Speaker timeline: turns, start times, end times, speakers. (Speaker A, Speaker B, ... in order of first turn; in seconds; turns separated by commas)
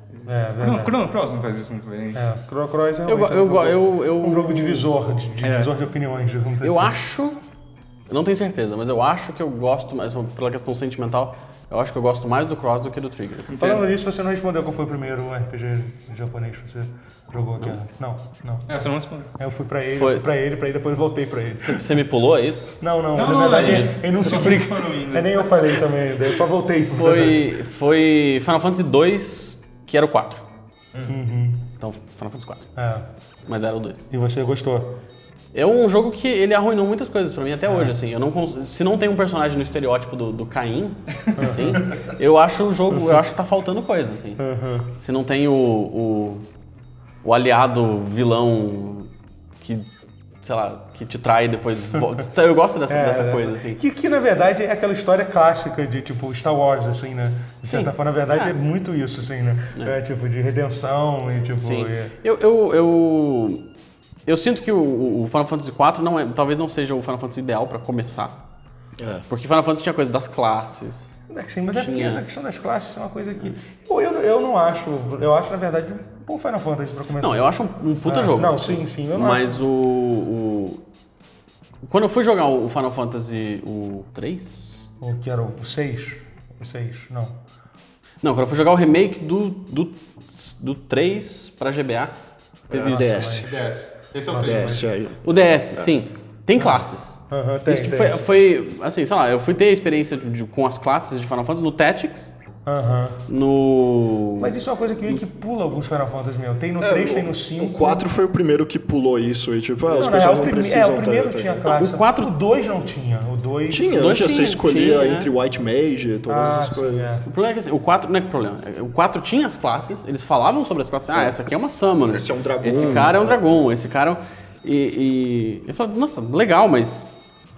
Speaker A: 0.2-1.0, Speaker B: 0.6-2.2, Speaker A: 2.1-7.0, Speaker C: 3.1-4.9, Speaker B: 5.4-5.7, Speaker C: 6.6-7.4, Speaker C: 8.1-13.6, Speaker B: 13.5-13.8, Speaker A: 13.6-22.0, Speaker B: 18.7-19.3, Speaker C: 19.9-20.2, Speaker C: 21.6-22.7, Speaker A: 22.8-27.4, Speaker B: 23.1-25.8, Speaker C: 23.5-23.9, Speaker C: 26.9-30.4, Speaker A: 31.1-31.7, Speaker C: 31.8-32.7, Speaker A: 32.8-33.1, Speaker C: 33.5-34.1, Speaker A: 34.1-34.9, Speaker C: 35.5-44.4, Speaker A: 37.7-37.9, Speaker A: 41.4-42.0, Speaker A: 42.9-43.2, Speaker A: 44.4-44.9, Speaker C: 44.9-46.4, Speaker C: 47.2-49.9, Speaker C: 50.4-53.8, Speaker A: 52.9-62.1, Speaker C: 57.7-58.6, Speaker C: 61.6-63.6, Speaker C: 64.2-68.4, Speaker D: 69.0-69.2, Speaker C: 69.3-71.2, Speaker A: 71.3-77.5, Speaker C: 71.7-72.2, Speaker C: 77.2-80.8, Speaker A: 78.0-79.6, Speaker C: 81.8-84.8, Speaker A: 85.0-87.3, Speaker C: 88.2-92.1, Speaker D: 92.7-93.6, Speaker A: 92.7-93.7, Speaker C: 92.7-93.1, Speaker B: 93.3-94.9, Speaker A: 94.3-94.9, Speaker D: 94.4-95.9, Speaker C: 95.2-102.3, Speaker A: 96.6-98.3, Speaker A: 102.7-103.2, Speaker C: 103.3-104.5, Speaker A: 104.4-108.1, Speaker D: 106.8-111.7, Speaker A: 109.8-113.9, Speaker C: 111.7-112.3, Speaker D: 113.7-117.1, Speaker C: 113.9-115.3, Speaker A: 116.3-117.2, Speaker C: 117.2-127.1, Speaker D: 122.0-123.4